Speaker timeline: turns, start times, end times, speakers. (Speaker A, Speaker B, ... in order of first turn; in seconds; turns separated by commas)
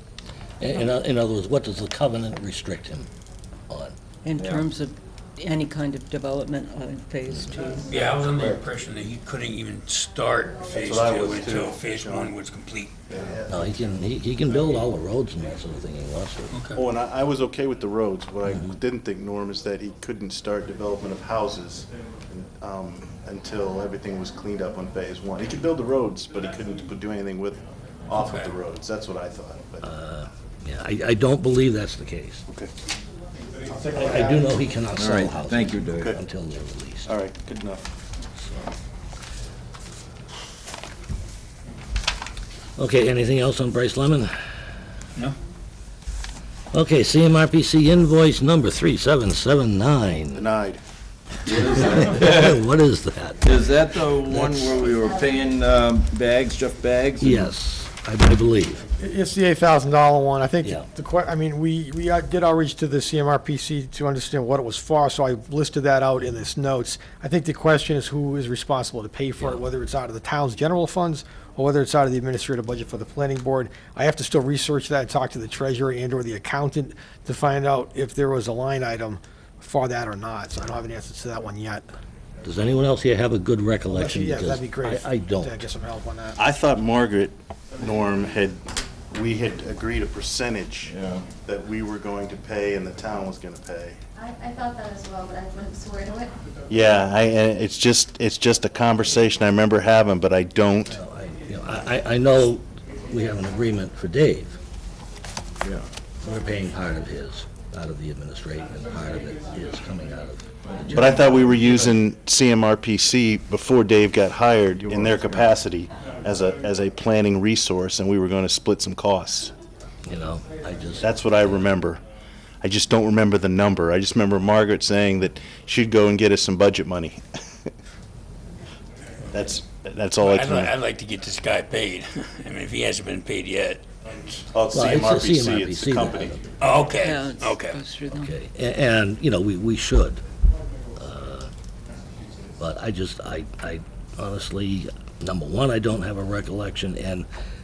Speaker A: 0.6-3.1, Speaker A: 3.7-4.0, Speaker B: 4.2-7.9, Speaker C: 4.3-4.7, Speaker D: 7.8-13.0, Speaker E: 8.2-8.6, Speaker E: 10.7-12.3, Speaker E: 13.1-13.7, Speaker A: 13.5-16.6, Speaker D: 16.5-16.8, Speaker E: 16.7-29.9, Speaker A: 18.4-18.8, Speaker D: 28.2-28.6, Speaker A: 29.8-32.5, Speaker F: 33.6-34.6, Speaker A: 34.0-37.1, Speaker C: 34.9-36.1, Speaker E: 37.0-37.9, Speaker A: 42.8-44.3, Speaker A: 46.7-50.4, Speaker E: 50.4-50.8, Speaker C: 51.5-52.6, Speaker A: 51.7-53.5, Speaker C: 53.4-57.5, Speaker A: 54.3-54.8, Speaker A: 57.2-58.9, Speaker F: 59.0-81.9, Speaker A: 82.4-85.5, Speaker F: 83.9-86.4, Speaker E: 86.4-94.0, Speaker C: 90.9-91.3, Speaker G: 94.2-96.3, Speaker E: 96.7-101.0, Speaker A: 100.9-104.6, Speaker A: 106.2-111.2, Speaker C: 110.7-111.9, Speaker E: 110.9-119.5, Speaker C: 114.8-115.5, Speaker A: 120.0-121.6, Speaker E: 121.0-122.0, Speaker E: 122.6-127.7, Speaker E: 129.3-130.7, Speaker D: 130.2-134.3, Speaker E: 134.5-136.3, Speaker A: 134.7-136.4, Speaker D: 136.6-137.8, Speaker B: 137.0-138.3, Speaker A: 138.1-140.2, Speaker A: 141.0-141.5, Speaker A: 142.6-147.3